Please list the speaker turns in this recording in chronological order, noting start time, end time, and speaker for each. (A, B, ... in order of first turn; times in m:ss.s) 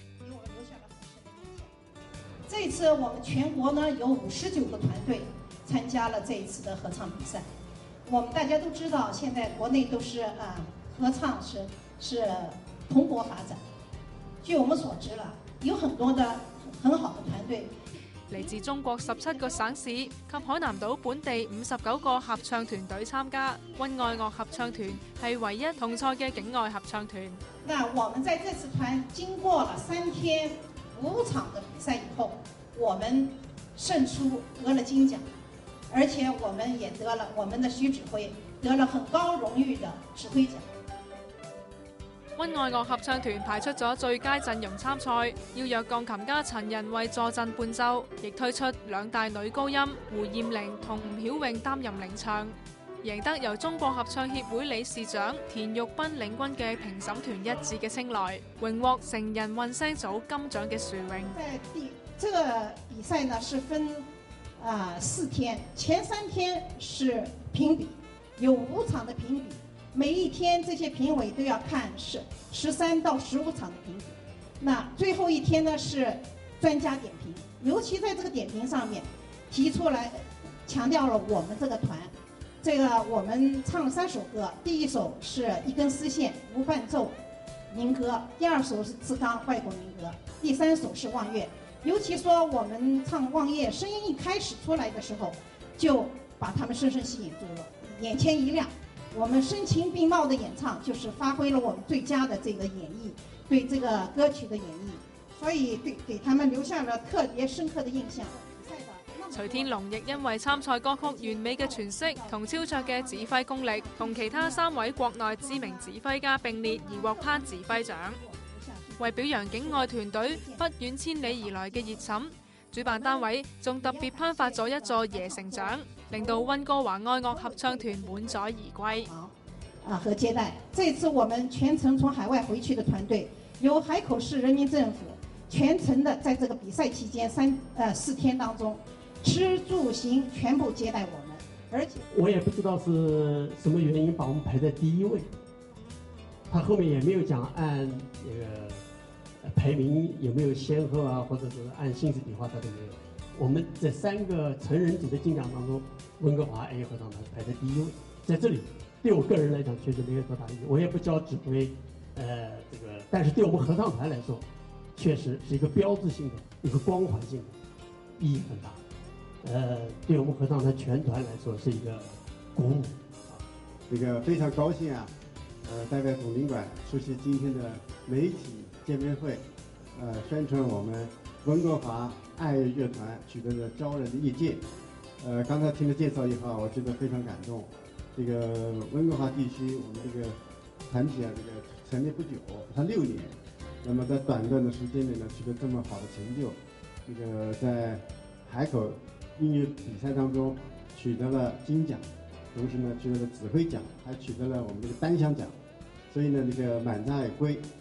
0:00.2-0:01.7 A
0:02.5-0:07.5 A
0:08.1-0:13.6 A
0:14.4-0:21.0 A
0:18.3-0:27.4 B
0:21.7-0:26.6 A
0:27.6-0:35.2 A
0:35.9-0:40.7 A
0:42.4-1:01.4 B
1:01.3-1:27.2 A
1:27.7-2:02.2 A
1:49.3-1:58.2 B
1:59.0-2:09.1 B
2:02.8-2:22.0 A
2:22.1-2:25.3 C
2:26.5-2:28.8 C
2:29.4-2:47.5 C
2:48.2-2:48.8 C
2:49.4-2:53.4 C
2:53.9-2:55.1 D
2:55.6-3:04.6 D
3:05.2-3:10.4 D
3:10.9-3:25.6 D
3:26.1-3:27.7 D